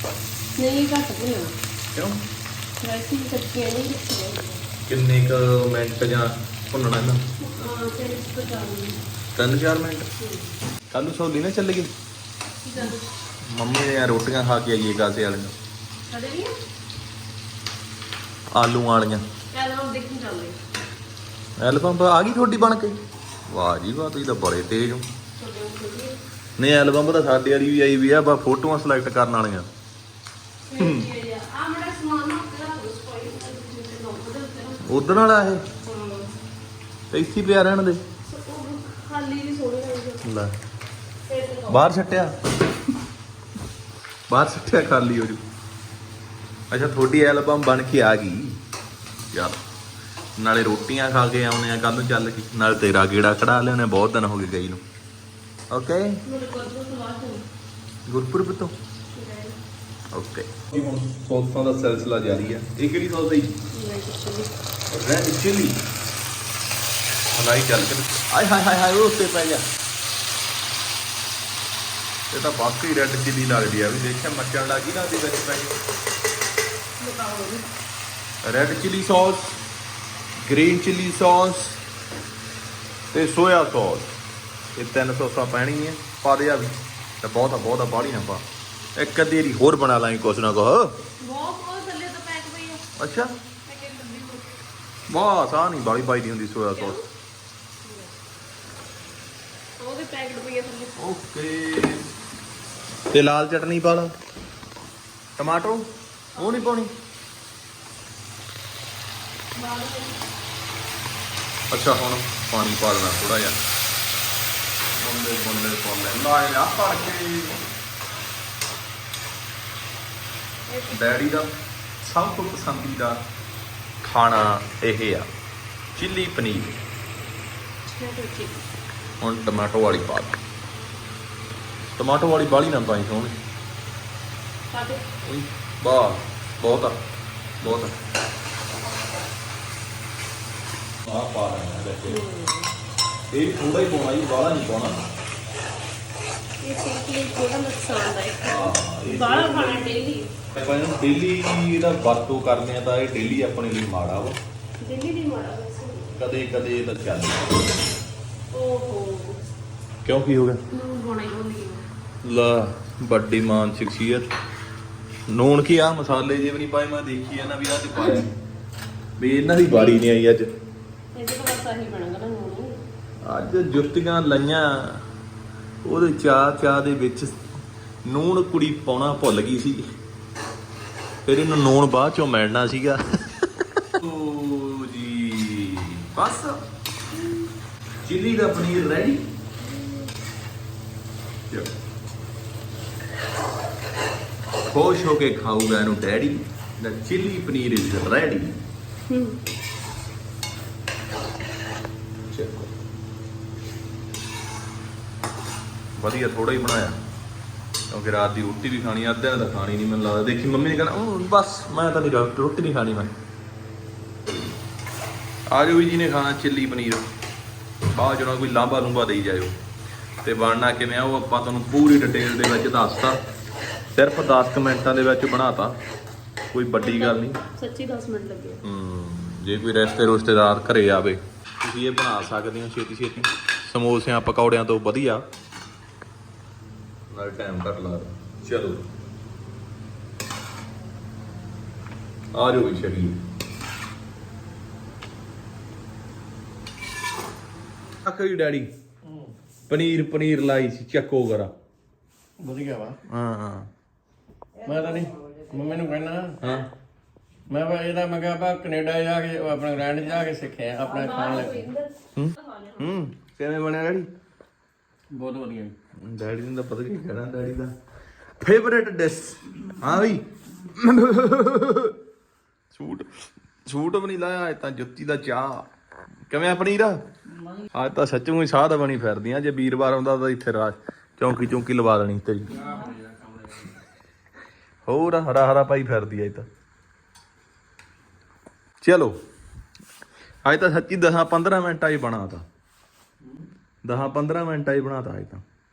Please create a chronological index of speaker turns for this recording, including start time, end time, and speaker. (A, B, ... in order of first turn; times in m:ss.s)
0:00.6-0:01.5 A
0:02.8-0:04.6 A
0:04.8-0:07.2 B
0:07.4-0:09.0 A
0:09.3-0:10.1 B
0:10.2-0:10.5 A
0:10.9-0:11.9 B
0:12.6-0:13.0 A
0:13.4-0:15.5 B
0:16.1-0:16.6 A
0:18.5-0:19.2 B
0:19.5-0:20.6 A
0:21.6-0:23.0 B
0:23.5-0:25.1 B
0:25.4-0:26.2 A
0:26.6-0:29.7 B
0:30.7-0:35.1 A
0:30.8-0:31.1 B
0:34.8-0:35.6 B
0:35.8-0:36.3 A
0:37.1-0:38.0 B
0:38.2-0:40.2 A
0:40.2-0:40.5 B
0:41.2-0:42.0 A
0:41.7-0:42.4 B
0:44.3-0:45.4 B
0:46.7-0:48.6 B
0:49.3-0:49.6 B
0:50.4-0:54.8 B
0:55.7-0:56.2 B
0:56.2-0:57.4 A
0:58.1-0:58.7 B
0:59.1-0:59.6 A
1:00.1-1:03.5 B
1:03.7-1:04.5 A
1:04.9-1:05.8 B
1:07.3-1:09.6 B
1:12.3-1:15.8 B
1:17.0-1:17.7 A
1:18.4-1:19.6 B
1:20.4-1:21.8 B
1:23.1-1:24.1 B
1:24.8-1:28.4 B
1:29.0-1:31.0 B
1:31.2-1:32.8 A
1:33.0-1:33.3 B
1:33.6-1:34.6 A
1:35.1-1:37.0 B
1:36.7-1:37.0 A
1:37.8-1:38.1 A
1:39.8-1:40.9 A
1:41.0-1:42.0 B
1:43.1-1:44.1 B
1:45.4-1:46.9 B
1:46.4-1:46.7 A
1:49.5-1:50.3 A
1:51.7-1:53.6 B
1:55.0-1:57.6 B
2:00.7-2:01.2 A
2:00.9-2:03.2 B
2:04.0-2:05.3 B
2:05.9-2:06.8 B
2:07.8-2:08.6 A
2:09.2-2:10.4 B
2:11.9-2:13.4 B
2:14.7-2:15.0 A
2:15.2-2:17.0 B
2:17.6-2:18.0 B
2:21.0-2:22.2 B
2:22.1-2:22.7 A
2:23.3-2:25.0 B
2:26.6-2:30.3 A
2:28.4-2:34.4 B
2:34.8-2:36.2 A
2:36.1-2:37.6 B
2:38.5-2:39.4 A
2:40.0-2:40.6 B
2:40.7-2:41.8 A
2:42.2-2:44.3 B
2:45.3-2:48.3 B
2:47.9-2:48.2 A
2:49.2-2:50.5 B
2:49.6-2:50.1 A
2:51.1-2:52.8 A
2:53.2-2:55.0 B
2:55.8-2:57.4 B
2:58.0-2:59.8 B
3:01.2-3:03.0 B
3:03.9-3:06.6 B
3:08.0-3:09.2 B
3:14.7-3:18.6 B
3:19.1-3:19.4 A
3:22.3-3:22.7 B
3:26.0-3:27.0 B
3:27.9-3:33.1 B
3:35.5-3:37.1 B
3:37.9-3:39.5 B
3:40.2-3:43.2 B
3:43.9-3:45.8 B
3:46.5-3:47.4 B
3:46.8-3:48.6 A
3:48.6-3:55.3 B
3:57.1-3:58.8 B
4:02.3-4:03.2 B
4:08.0-4:08.7 B
4:09.7-4:11.5 B
4:12.4-4:13.0 C
4:13.1-4:13.7 B
4:14.6-4:16.4 C
4:16.4-4:16.7 B
4:17.5-4:21.7 C
4:20.8-4:22.8 A
4:22.1-4:24.1 B
4:25.1-4:25.7 C
4:26.0-4:27.7 B
4:28.4-4:32.0 B
4:32.7-4:35.7 B
4:36.3-4:37.1 B
4:37.7-4:42.9 B
4:42.6-4:43.7 C
4:44.8-4:46.5 B
4:48.8-4:49.1 B
4:50.4-4:52.4 B
4:53.8-4:55.4 B